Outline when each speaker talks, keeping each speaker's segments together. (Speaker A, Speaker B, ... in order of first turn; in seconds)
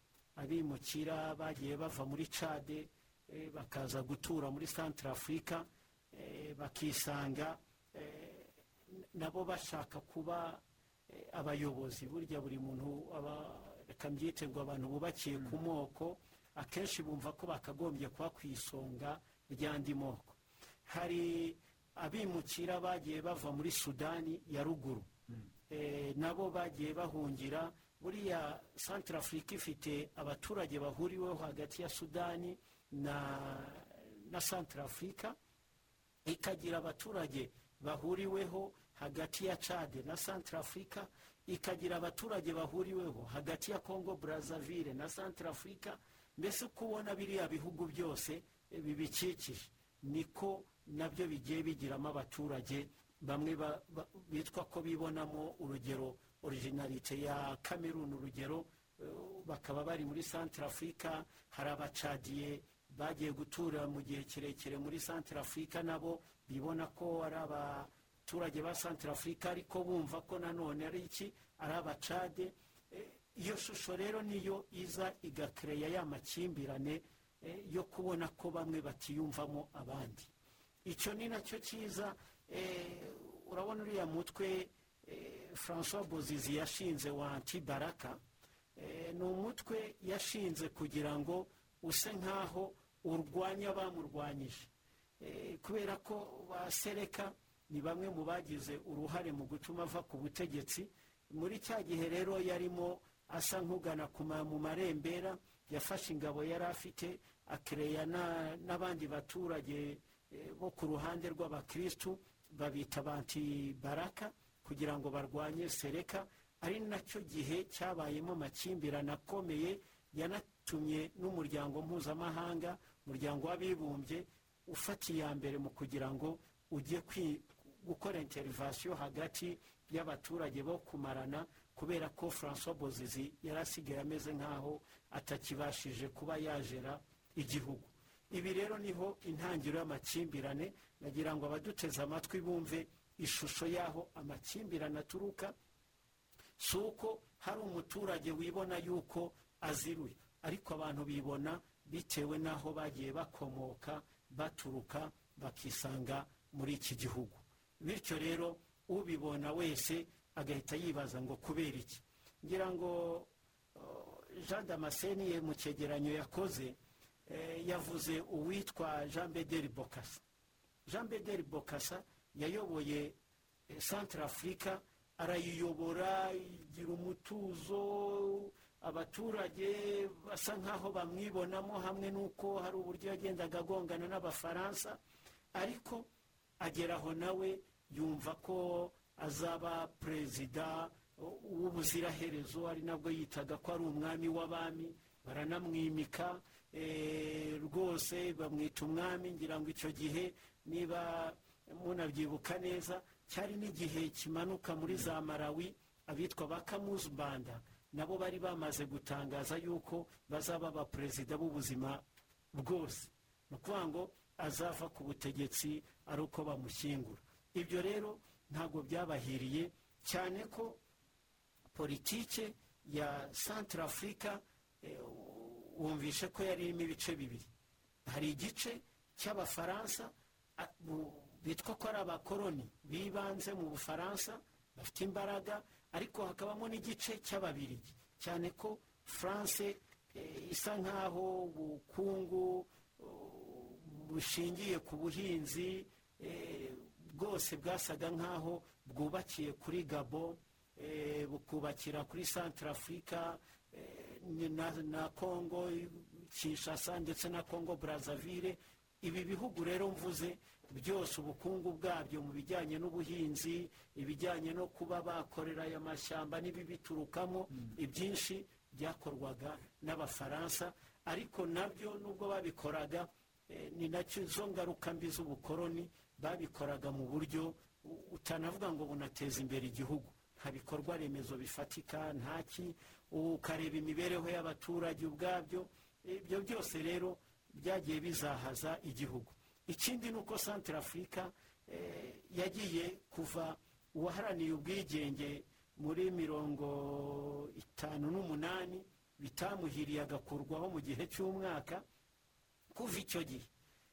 Speaker A: 0.3-25.1, 25.7-35.4, 36.2-80.3, 80.8-88.2, 88.8-145.5, 146.6-170.2, 170.8-173.2, 173.7-185.0, 185.5-186.1, 186.6-220.8, 221.7-227.5, 228.1-301.8, 302.7-303.5